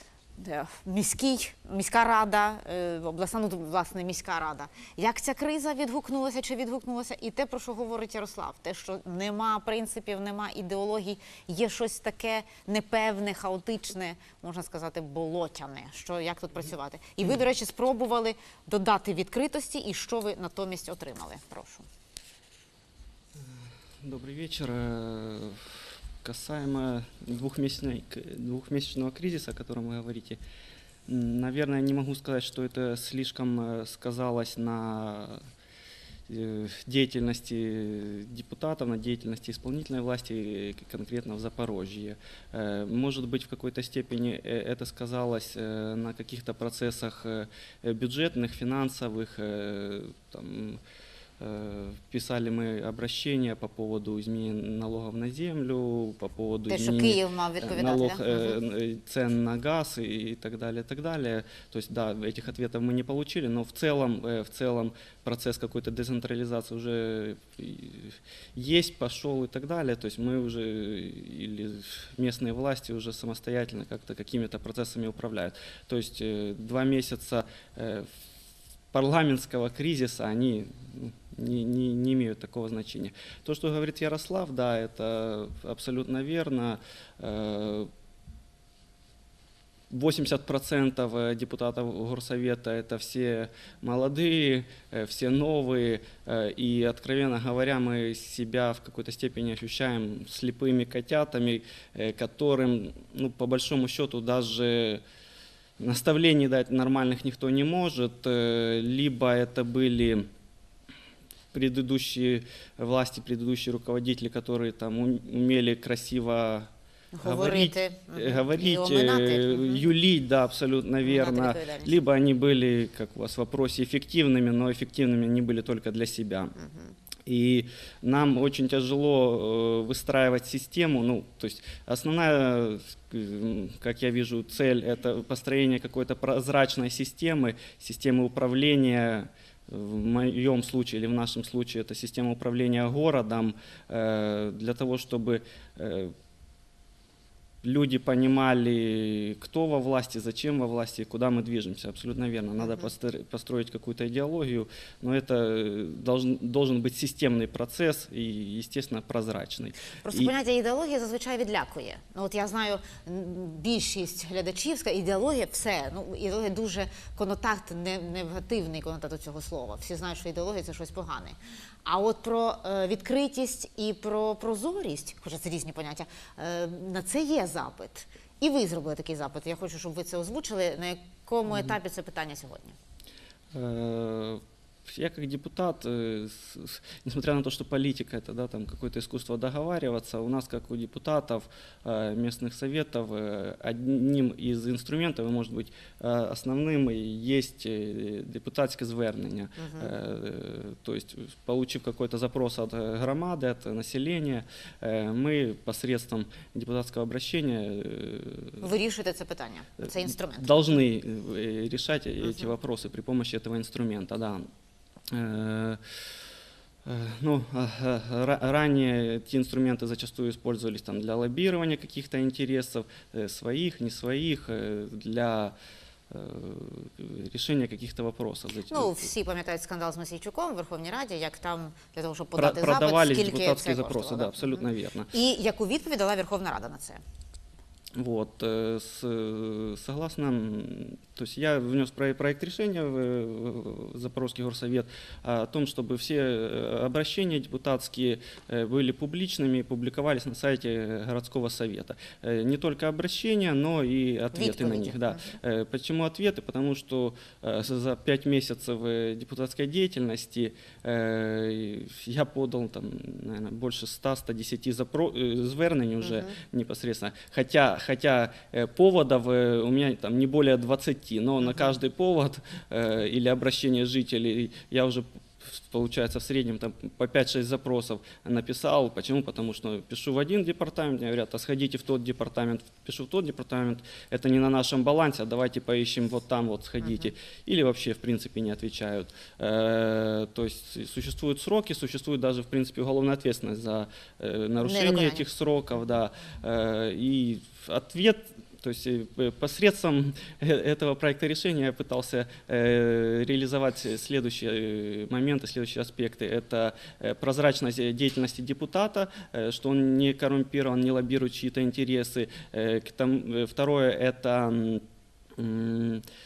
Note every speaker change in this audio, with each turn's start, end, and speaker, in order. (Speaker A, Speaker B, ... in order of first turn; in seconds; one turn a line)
Speaker A: 0.4-21.9
Speaker B: 23.4-30.4
Speaker B: 31.1-35.4
Speaker B: 36.3-50.8
Speaker B: 51.4-78.1
Speaker A: 56.7-58.6
Speaker B: 78.9-87.9
Speaker B: 89.9-105.0
Speaker B: 105.8-110.2
Speaker B: 111.5-116.7
Speaker A: 117.1-119.8
Speaker B: 117.2-126.5
Speaker A: 121.0-122.0
Speaker A: 126.6-127.0
Speaker B: 127.3-146.1
Speaker B: 147.6-160.3
Speaker A: 152.6-152.9
Speaker A: 160.1-182.8
Speaker B: 181.5-181.7
Speaker B: 183.5-208.7
Speaker A: 199.6-199.9
Speaker A: 208.6-210.6
Speaker B: 209.8-214.4
Speaker A: 212.2-212.5
Speaker B: 215.1-216.0
Speaker B: 216.8-225.6
Speaker B: 226.1-229.1
Speaker A: 228.7-237.0
Speaker B: 232.3-235.1
Speaker B: 238.0-314.8
Speaker A: 254.3-255.4
Speaker A: 266.0-266.3
Speaker A: 271.5-271.7
Speaker A: 294.6-295.3
Speaker B: 315.4-316.0